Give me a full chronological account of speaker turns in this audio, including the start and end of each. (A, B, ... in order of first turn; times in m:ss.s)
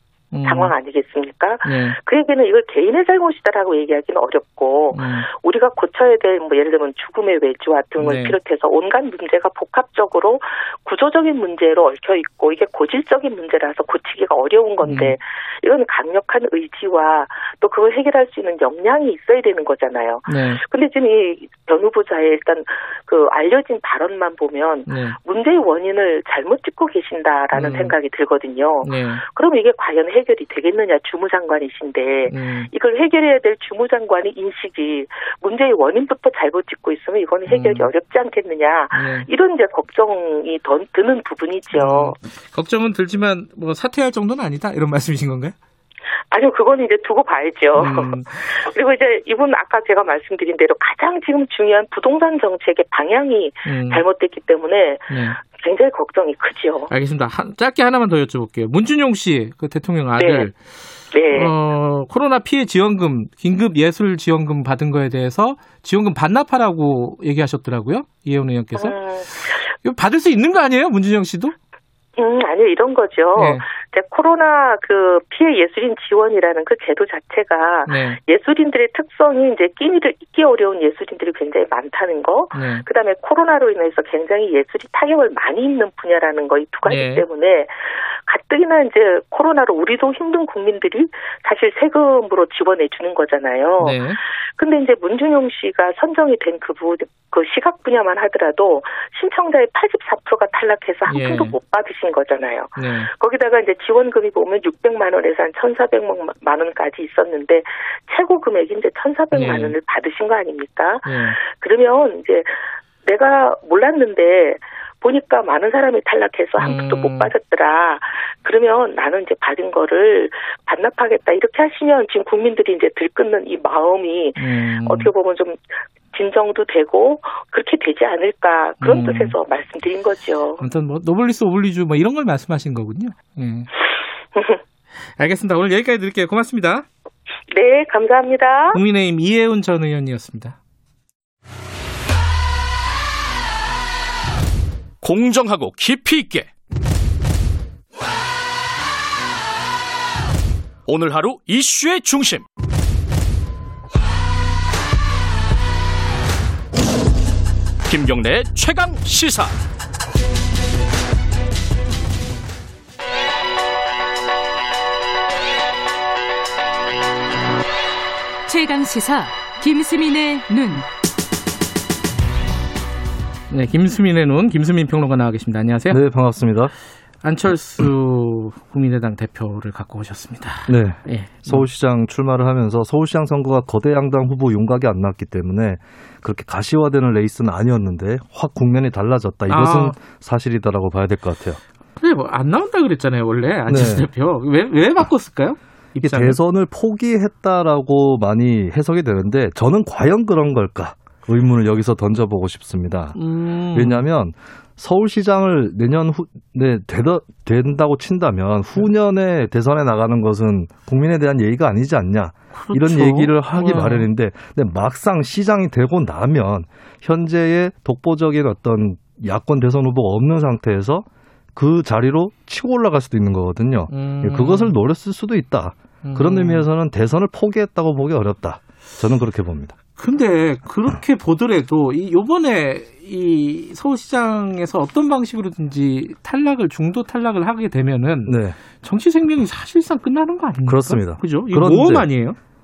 0:00.3-0:00.7 A
0:00.4-0:42.2 B
0:01.6-0:02.0 A
0:04.9-0:05.3 A
0:08.0-0:08.4 A
0:14.8-0:15.2 A
0:20.3-0:20.6 A
0:24.9-0:25.2 A
0:27.5-0:27.9 A
0:28.8-0:29.2 A
0:32.3-0:32.7 A
0:37.5-0:37.9 A
0:38.9-0:39.3 A
0:41.7-0:45.6 A
0:46.3-0:56.9 B
0:47.7-0:48.4 A
0:53.6-0:54.0 A
0:55.1-0:55.4 A
0:56.9-1:00.6 A
1:00.2-1:00.5 B
1:01.1-1:01.5 B
1:01.3-1:11.6 A
1:08.8-1:09.7 B
1:12.2-2:05.6 B
1:13.3-1:13.6 A
1:17.9-1:18.2 A
1:22.5-1:22.8 A
1:26.9-1:27.2 A
1:33.8-1:34.2 A
1:41.1-1:41.6 A
1:42.8-1:43.1 A
1:49.3-1:49.7 A
1:51.0-1:51.4 A
1:56.6-1:57.3 A
2:04.4-2:05.1 A
2:06.1-2:10.6 B
2:08.8-2:09.4 A
2:10.6-2:13.7 A
2:15.2-2:16.9 A
2:17.5-2:18.8 B
2:18.7-2:20.6 A
2:25.0-2:26.5 C
2:30.9-2:32.4 C
2:37.8-2:39.6 C
2:48.5-2:50.9 D
2:53.5-2:56.0 A
2:55.9-2:56.7 E
2:57.2-3:01.7 A
3:00.7-3:11.6 E
3:09.5-3:10.0 A
3:12.0-3:16.4 A
3:13.7-3:14.1 E
3:16.0-3:23.2 E
3:23.1-3:24.0 A
3:23.7-3:49.8 E
3:32.5-3:34.1 A
3:43.9-3:44.7 A
3:46.0-3:46.7 A
3:50.0-4:02.4 A
3:58.3-3:58.6 E
4:00.6-4:02.1 E